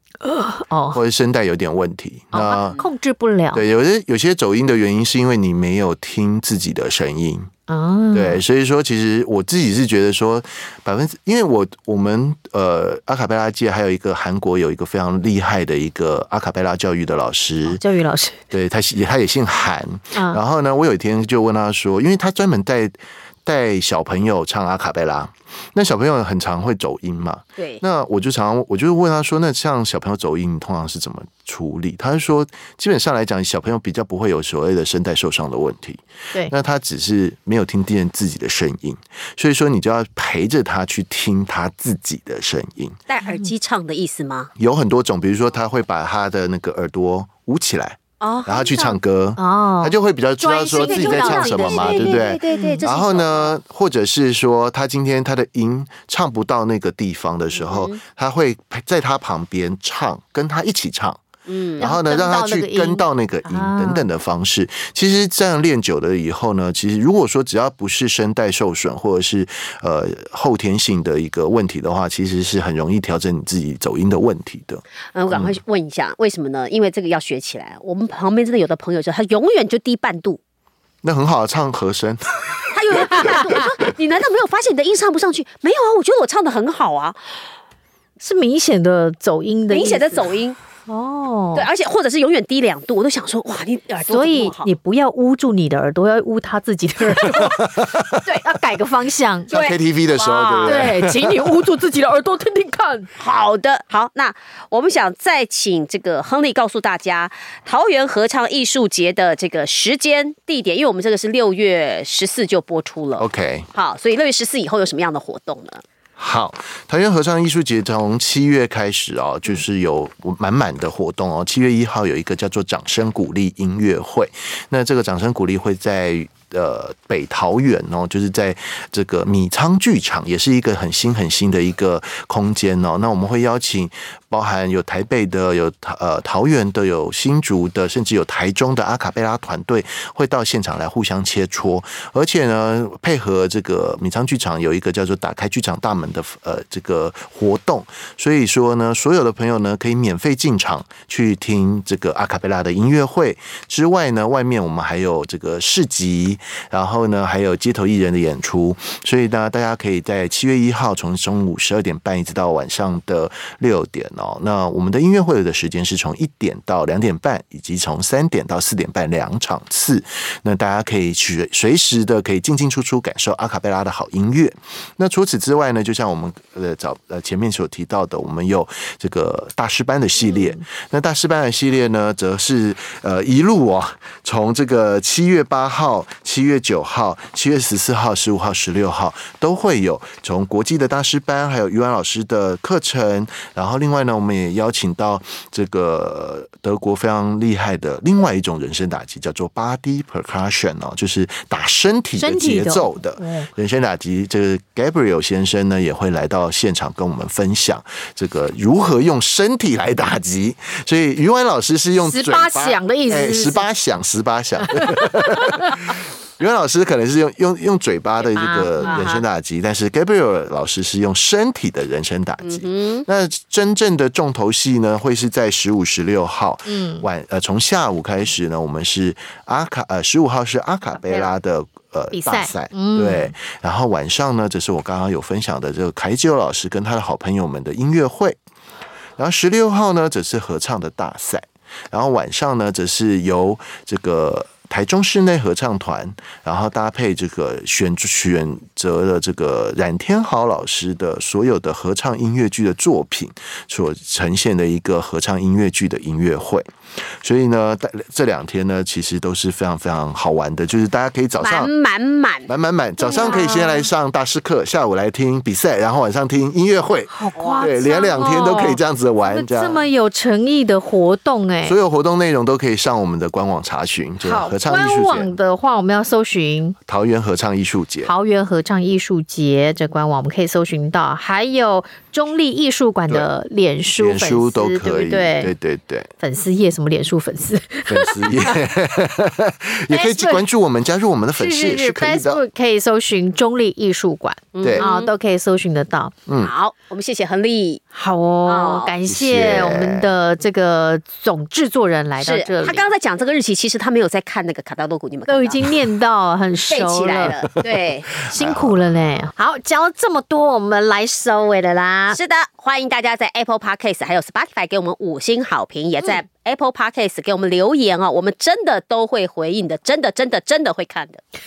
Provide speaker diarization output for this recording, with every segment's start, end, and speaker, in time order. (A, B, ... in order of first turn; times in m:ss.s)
0:00.2-0:01.0 A
0:00.9-0:02.8 B
0:02.3-0:03.6 A
0:03.5-0:07.5 B
0:07.7-0:08.4 A
0:08.1-0:17.8 B
0:17.7-0:18.4 A
0:18.5-0:43.0 B
0:20.1-0:20.4 A
0:43.1-0:44.5 C
0:43.3-0:43.5 A
0:44.6-1:01.2 B
0:48.2-0:48.8 C
0:48.8-0:52.8 A
0:50.7-0:53.6 C
0:57.5-0:58.0 C
1:01.5-1:01.9 C
1:01.8-1:15.6 B
1:01.8-1:04.1 A
1:15.1-1:20.4 C
1:21.0-1:22.6 B
1:22.7-1:27.2 C
1:23.1-1:23.5 B
1:28.2-1:30.3 A
1:29.7-1:30.6 C
1:30.9-1:31.7 A
1:31.6-1:34.7 C
1:34.1-1:39.5 A
1:37.2-1:38.2 B
1:39.5-1:41.5 B
1:39.5-1:40.9 C
1:40.6-1:43.1 A
1:43.2-1:55.8 C
1:53.2-1:53.7 B
1:56.2-3:58.4 B
3:00.2-3:00.6 A
3:22.2-3:23.5 A
3:32.0-3:33.7 A
3:34.8-3:35.7 A
3:38.4-3:39.1 A
3:38.4-3:39.2 C
3:42.4-3:43.1 C
3:46.7-3:47.1 A
3:51.0-3:51.3 A
3:52.1-3:53.4 A
3:59.2-4:21.7 B
4:21.4-4:22.5 C
4:22.5-4:29.8 B
4:23.0-4:23.9 A
4:27.1-4:31.8 A
4:27.4-4:27.7 C
4:31.6-4:35.3 B
4:34.2-4:36.8 A
4:36.9-4:38.1 B
4:38.0-4:45.5 A
4:44.0-4:46.1 B
4:46.2-4:48.5 A
4:47.9-4:52.4 B
4:49.9-4:50.4 A
4:51.4-4:56.1 A
4:54.5-4:55.1 C
4:54.6-4:54.9 B
4:56.3-4:56.5 B
4:56.4-4:57.8 C
4:57.9-5:02.9 A
4:58.5-4:58.9 C
4:59.0-5:00.1 B
5:02.2-5:05.7 C
5:05.3-5:07.4 A
5:06.7-5:08.1 C
5:07.7-5:09.0 B
5:08.3-5:12.2 A
5:12.1-5:21.2 C